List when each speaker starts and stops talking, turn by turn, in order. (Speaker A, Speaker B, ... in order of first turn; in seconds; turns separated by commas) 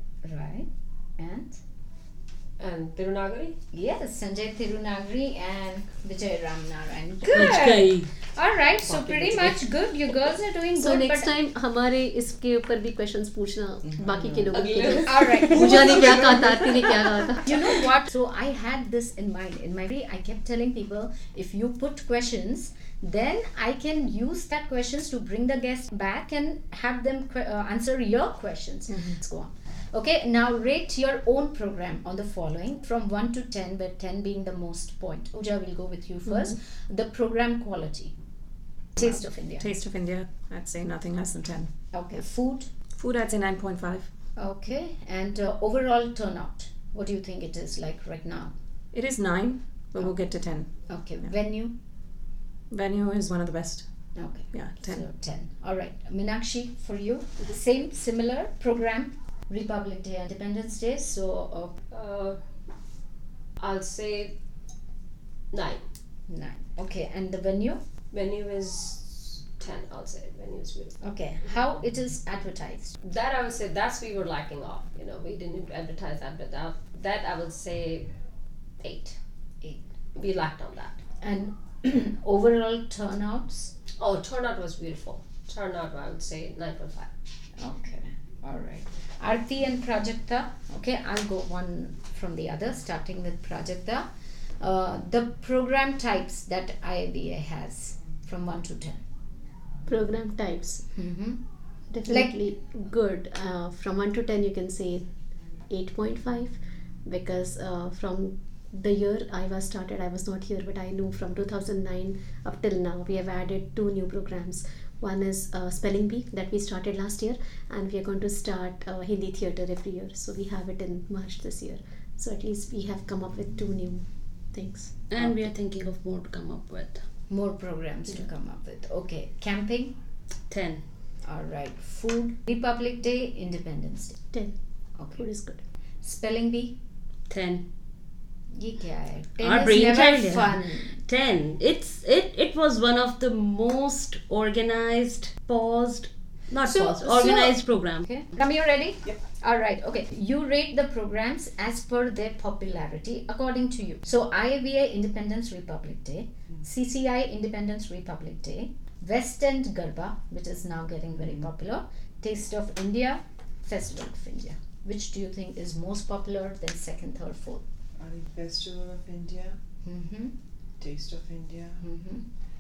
Speaker A: 0.2-1.6, Speaker B: 2.6-3.5, Speaker A: 3.7-11.3, Speaker C: 7.3-8.1, Speaker B: 7.4-7.7, Speaker B: 8.9-9.5, Speaker D: 10.8-17.8, Speaker E: 13.8-14.6, Speaker B: 14.5-16.2, Speaker A: 15.0-16.1, Speaker E: 15.8-16.6, Speaker A: 17.4-38.1, Speaker A: 39.0-39.7, Speaker F: 39.0-42.2, Speaker A: 41.9-42.7, Speaker F: 43.0-44.1, Speaker A: 44.4-48.5, Speaker F: 48.9-50.7, Speaker A: 50.9-51.7, Speaker F: 52.7-53.9, Speaker A: 54.1-61.8, Speaker F: 54.5-55.0, Speaker B: 61.9-62.4, Speaker B: 63.6-64.3, Speaker B: 65.5-65.8, Speaker A: 66.3-67.8, Speaker B: 68.1-71.0, Speaker A: 71.0-73.0, Speaker B: 73.0-78.1, Speaker B: 78.8-79.2, Speaker B: 80.2-81.0, Speaker A: 81.2-83.7, Speaker B: 84.0-87.1, Speaker A: 87.6-94.0, Speaker A: 94.6-99.0, Speaker D: 99.8-100.9, Speaker A: 100.9-101.4, Speaker D: 101.9-105.1, Speaker A: 102.0-102.3, Speaker D: 105.7-125.0, Speaker C: 125.1-127.0, Speaker A: 127.3-129.9, Speaker C: 130.5-130.8, Speaker A: 131.2-134.2, Speaker A: 135.0-135.2, Speaker D: 135.2-135.6, Speaker A: 136.0-136.8, Speaker C: 137.3-137.6, Speaker A: 138.5-141.0, Speaker C: 139.4-148.1, Speaker A: 146.6-167.6, Speaker E: 168.0-169.6, Speaker A: 169.8-170.3, Speaker E: 170.8-171.8, Speaker A: 171.8-172.2